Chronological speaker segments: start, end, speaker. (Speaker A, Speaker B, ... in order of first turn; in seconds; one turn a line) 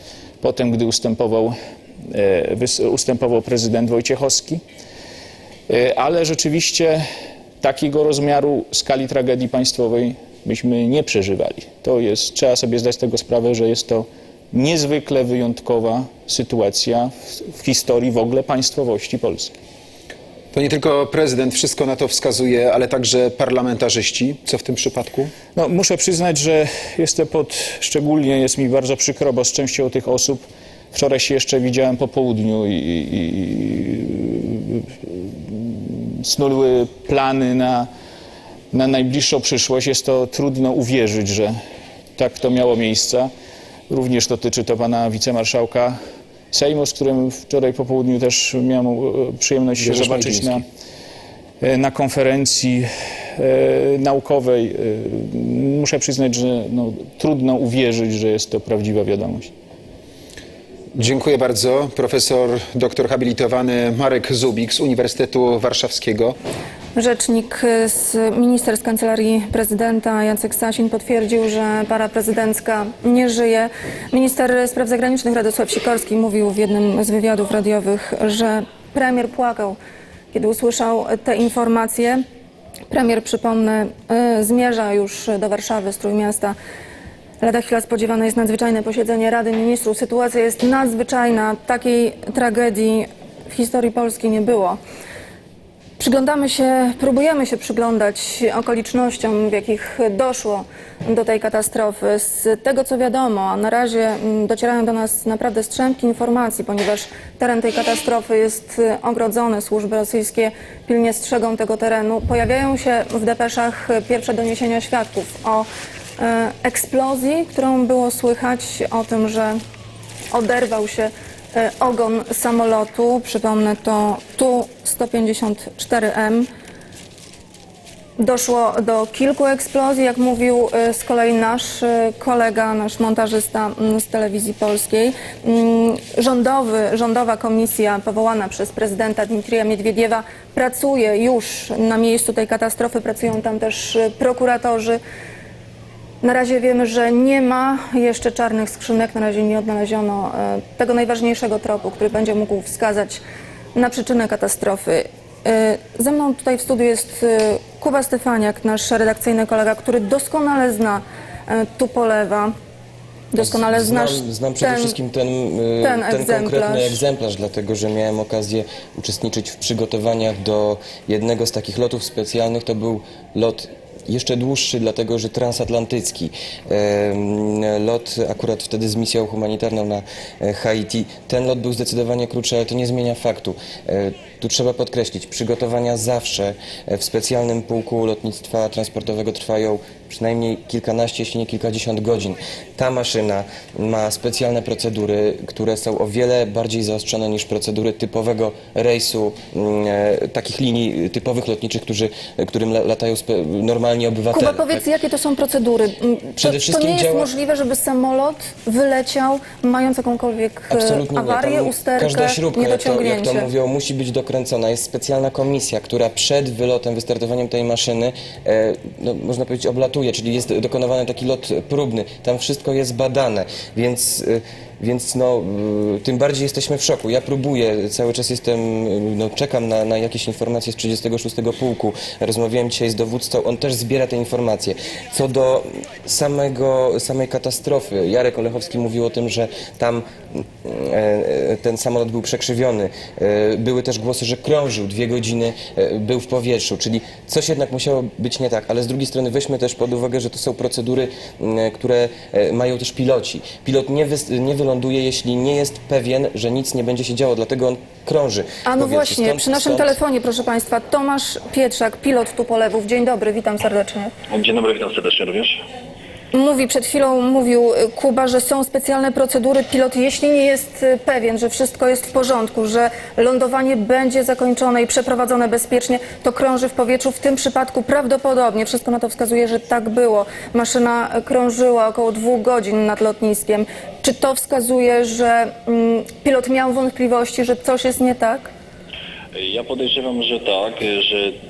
Speaker A: 0.4-1.5
Speaker A: 2.1-4.6
Speaker A: 5.7-7.0
Speaker A: 7.6-19.5
Speaker B: 20.5-25.3
Speaker A: 25.6-37.9
Speaker A: 38.7-41.6
Speaker A: 42.2-43.3
Speaker A: 43.9-46.0
Speaker A: 46.5-50.6
Speaker B: 49.8-50.6
Speaker A: 51.6-59.5
Speaker B: 60.9-66.4
Speaker C: 67.0-79.8
Speaker C: 80.3-82.2
Speaker C: 82.9-86.6
Speaker C: 87.4-94.8
Speaker C: 96.0-115.7
Speaker C: 116.2-119.6
Speaker C: 120.3-126.5
Speaker C: 128.2-145.0
Speaker C: 146.2-153.2
Speaker C: 153.7-162.5
Speaker C: 163.3-165.0
Speaker D: 163.4-204.8
Speaker C: 165.8-167.0
Speaker C: 204.3-213.5
Speaker D: 206.4-207.3
Speaker D: 210.7-260.0
Speaker C: 258.6-264.1
Speaker E: 264.3-265.6
Speaker C: 266.3-288.5
Speaker E: 289.3-291.3